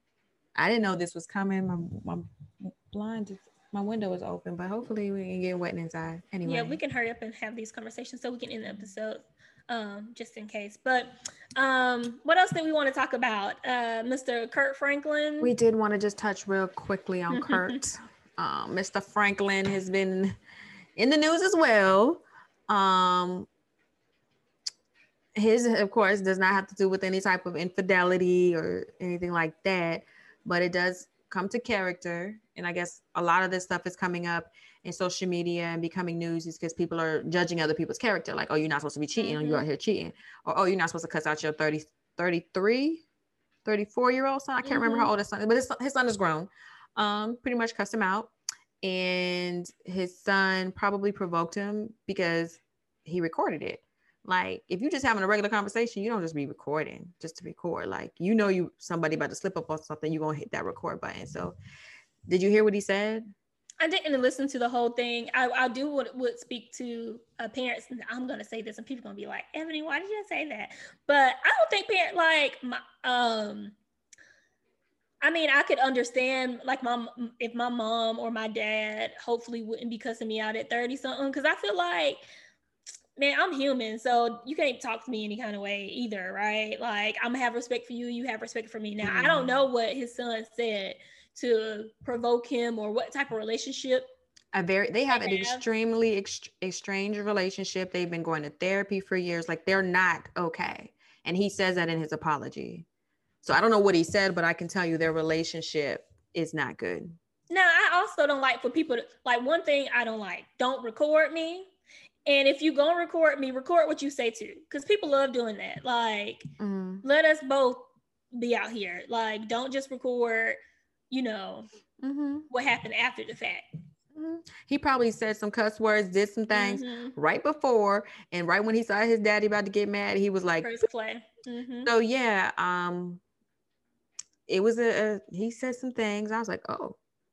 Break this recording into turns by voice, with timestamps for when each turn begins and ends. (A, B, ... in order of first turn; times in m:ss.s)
0:00.6-0:06.8 A
0:06.4-0:15.5 B
0:15.4-0:20.4 A
0:17.3-0:17.8 B
0:21.0-0:23.5 A
0:25.4-0:43.0 A
0:39.2-0:39.6 B
0:43.6-1:01.6 A
0:44.6-0:45.1 B
1:02.3-1:03.3 A
1:03.8-1:13.8 B
1:15.2-1:22.2 B
1:23.2-1:34.1 B
1:29.0-1:29.5 A
1:34.5-1:42.9 A
1:35.1-1:35.6 B
1:43.4-1:47.2 A
1:47.5-1:51.7 B
1:52.3-1:56.5 B
1:56.6-1:57.0 A
1:57.0-2:00.6 B
2:01.1-2:01.7 B
2:02.0-2:02.5 A
2:02.5-2:03.6 B
2:04.1-2:10.8 A
2:06.5-2:07.2 B
2:10.6-2:11.9 B
2:11.8-2:13.2 A
2:14.5-2:17.0 A